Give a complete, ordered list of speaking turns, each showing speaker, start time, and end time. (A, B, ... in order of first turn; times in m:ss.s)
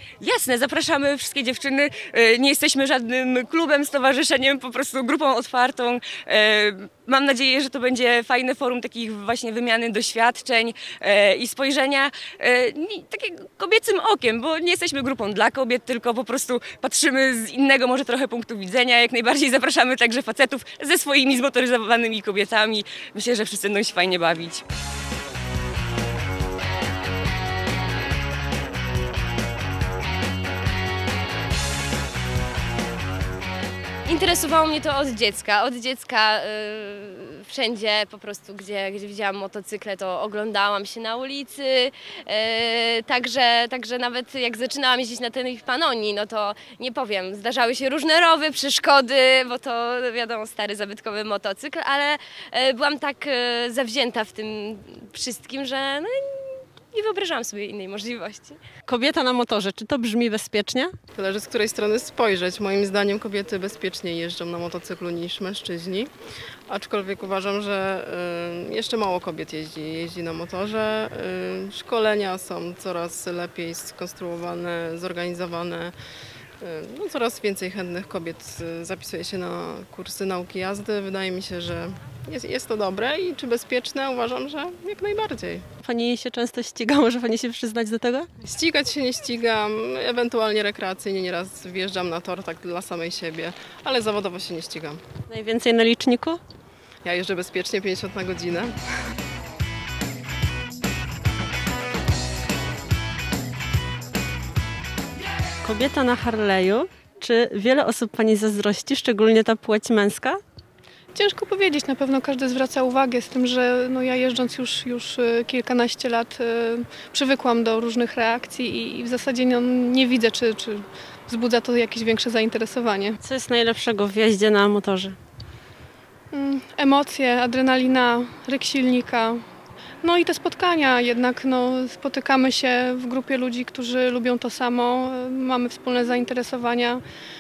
0:00.2-0:24.6 A
0:34.1-0:58.6 B
0:58.9-1:00.9 C
1:01.2-1:06.1 D
1:06.7-1:15.9 D
1:16.6-1:25.7 D
1:25.8-1:28.3 C
1:28.4-1:35.0 D
1:35.3-1:36.4 C
1:37.0-1:38.7 D
1:45.6-1:50.4 C
1:51.1-2:03.2 E
2:03.2-2:05.2 C
2:06.3-2:09.4 E
2:10.0-2:17.0 E